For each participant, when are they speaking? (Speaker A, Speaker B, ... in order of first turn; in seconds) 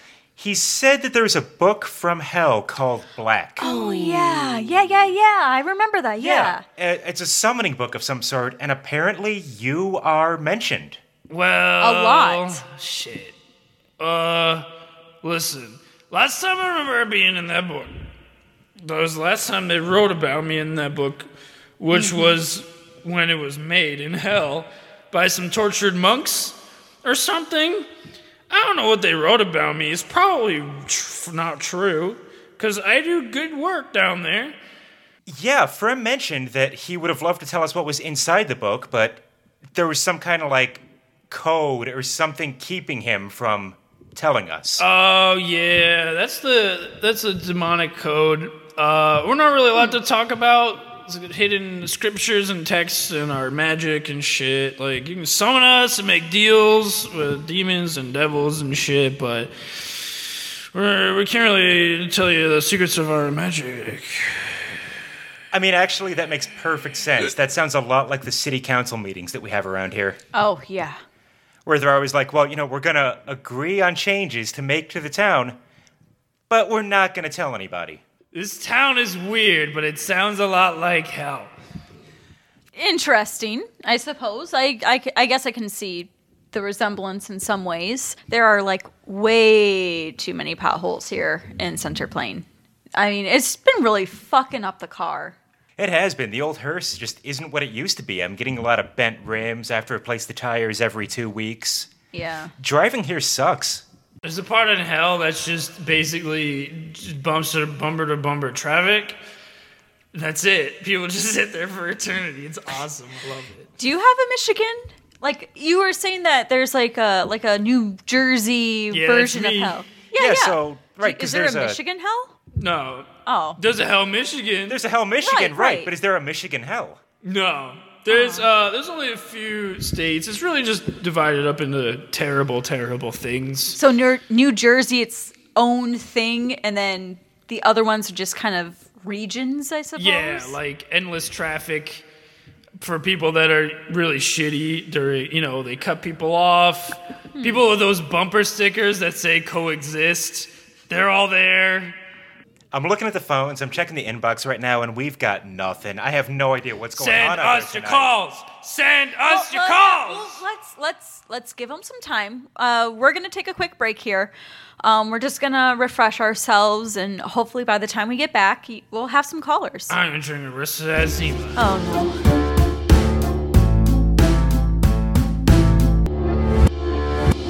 Speaker A: 0.4-3.6, 6.2-11.0, 35.3-39.2, 39.7-44.8, 65.5-70.2, 71.7-75.6, 76.5-78.0, 95.8-101.9, 102.6-103.8, 120.2-121.8, 124.7-127.0, 152.7-158.1
Speaker B: 3.6-4.8, 11.3-13.4, 14.0-14.7, 15.2-18.1, 18.8-27.9, 28.5-34.6, 44.8-64.7, 78.3-81.5, 104.2-109.2, 110.1-113.7, 118.9-119.8, 122.6-124.8, 127.2-133.8, 140.0-142.1, 142.8-152.0, 156.9-160.4, 169.9-171.6
Speaker C: 3.6-6.6, 11.8-12.6, 21.9-22.4, 70.3-71.0, 82.7-95.4, 102.1-102.5, 113.8-122.3, 123.3-123.6, 125.2-125.9, 128.1-128.5, 133.7-140.6, 147.4-147.6, 159.2-169.9, 171.6-172.2